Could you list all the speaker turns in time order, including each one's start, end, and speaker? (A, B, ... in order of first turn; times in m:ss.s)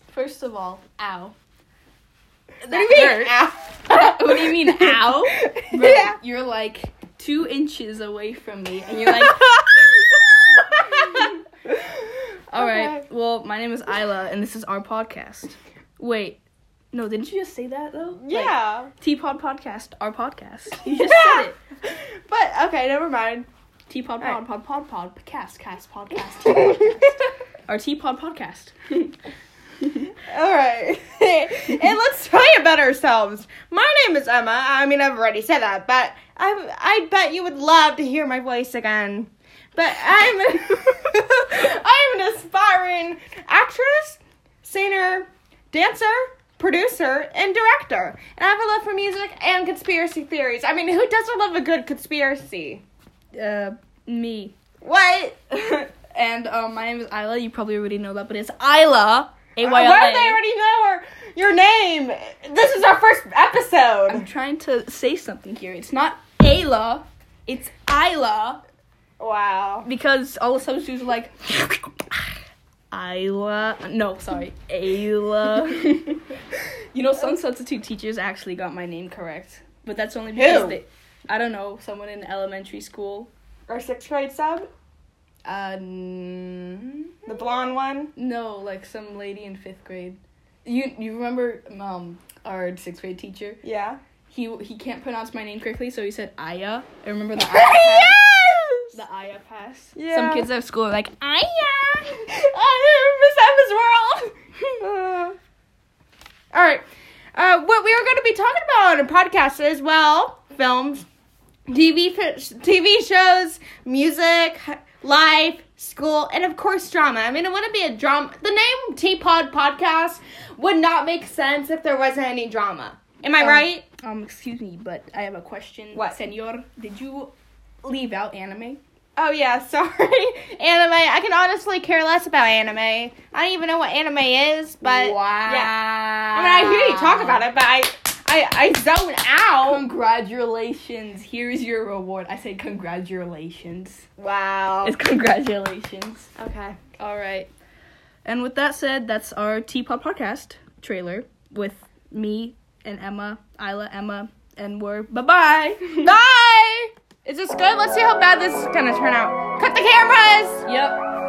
0:00.1-0:01.4 A
0:02.6-0:03.4 A
0:02.7-0:06.2 B
0:03.9-0:09.6 A
0:09.1-0:09.6 B
0:10.8-0:11.4 A
0:12.5-0:16.4 A
0:12.6-0:13.0 B
0:16.9-0:21.6 A
0:18.2-0:18.9 B
0:20.8-0:23.5 B
0:23.9-0:29.1 A
0:30.3-0:52.8 B
0:53.4-0:54.6 A
0:54.8-0:55.4 B
0:55.5-1:00.4 A
0:59.6-1:04.3 B
1:04.1-1:08.6 A
1:09.2-1:09.9 B
1:09.8-1:12.2 A
1:12.9-1:16.4 A
1:16.9-1:23.3 A
1:20.3-1:20.8 B
1:23.7-1:24.7 B
1:25.4-1:27.1 A
1:27.3-1:28.1 B
1:28.2-1:33.6 A
1:33.6-1:34.0 B
1:34.3-1:38.2 A
1:37.5-1:39.0 B
1:38.9-1:42.6 A
1:40.0-1:40.5 B
1:42.6-1:45.4 B
1:46.5-1:51.0 B
1:51.7-2:03.8 B
2:03.4-2:08.8 A
2:09.2-2:15.8 B
2:14.8-2:17.5 A
2:16.3-2:19.8 B
2:19.6-2:24.1 A
2:24.2-2:25.0 B
2:24.8-2:26.3 A
2:26.4-2:26.9 B
2:27.0-2:27.5 A
2:28.2-2:36.2 A
2:36.0-2:40.6 B
2:40.6-2:41.0 A